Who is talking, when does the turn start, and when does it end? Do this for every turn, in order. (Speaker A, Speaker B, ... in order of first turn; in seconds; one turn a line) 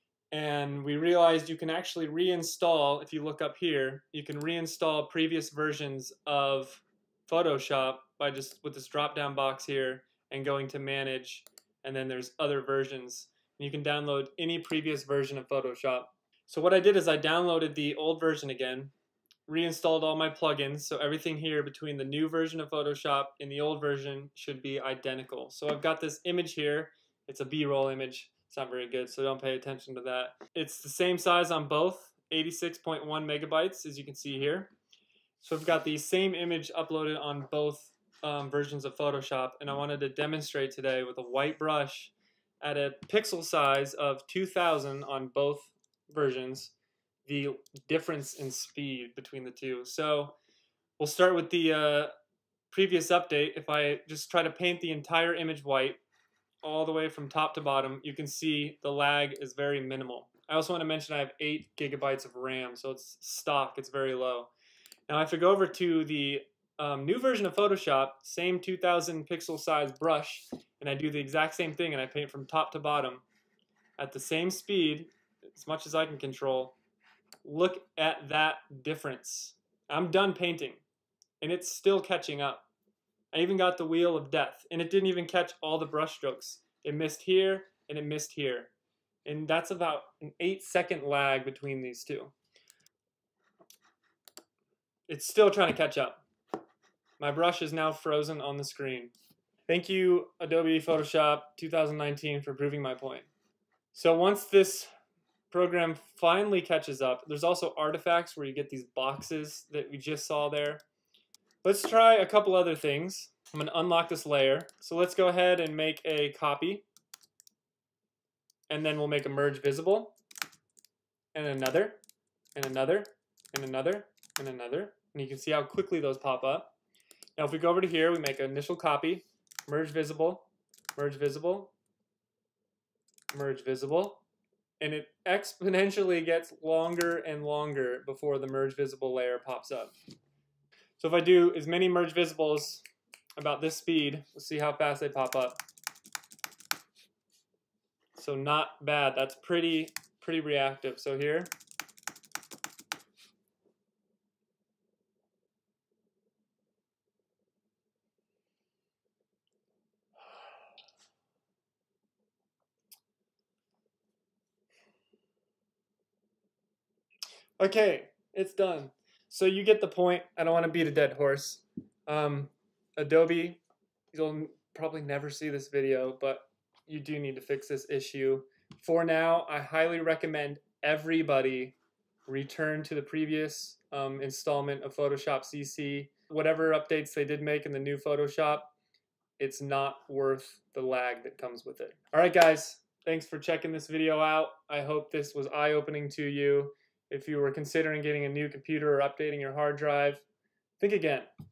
Speaker A: 0.3-18.9
Speaker A: 19.5-34.7
Speaker A: 35.4-46.7
Speaker A: 47.2-50.3
Speaker A: 51.0-52.1
Speaker A: 52.7-56.0
Speaker A: 56.6-64.5
Speaker A: 65.1-73.2
Speaker A: 74.0-76.7
Speaker A: 77.4-80.8
Speaker A: 81.4-82.7
Speaker A: 83.3-88.7
Speaker A: 89.2-92.3
Speaker A: 95.1-96.2
Speaker A: 97.2-99.1
Speaker A: 99.7-103.3
Speaker A: 103.9-104.9
Speaker A: 105.5-110.8
Speaker A: 111.6-116.8
Speaker A: 118.7-120.2
Speaker A: 121.3-122.0
Speaker A: 122.5-126.7
Speaker A: 127.4-131.7
Speaker A: 133.3-134.2
Speaker A: 134.8-139.9
Speaker A: 141.0-142.8
Speaker A: 143.4-145.6
Speaker A: 148.1-151.5
Speaker A: 167.6-173.6
Speaker A: 174.1-181.8
Speaker A: 182.3-188.7
Speaker A: 189.4-200.2
Speaker A: 200.8-201.3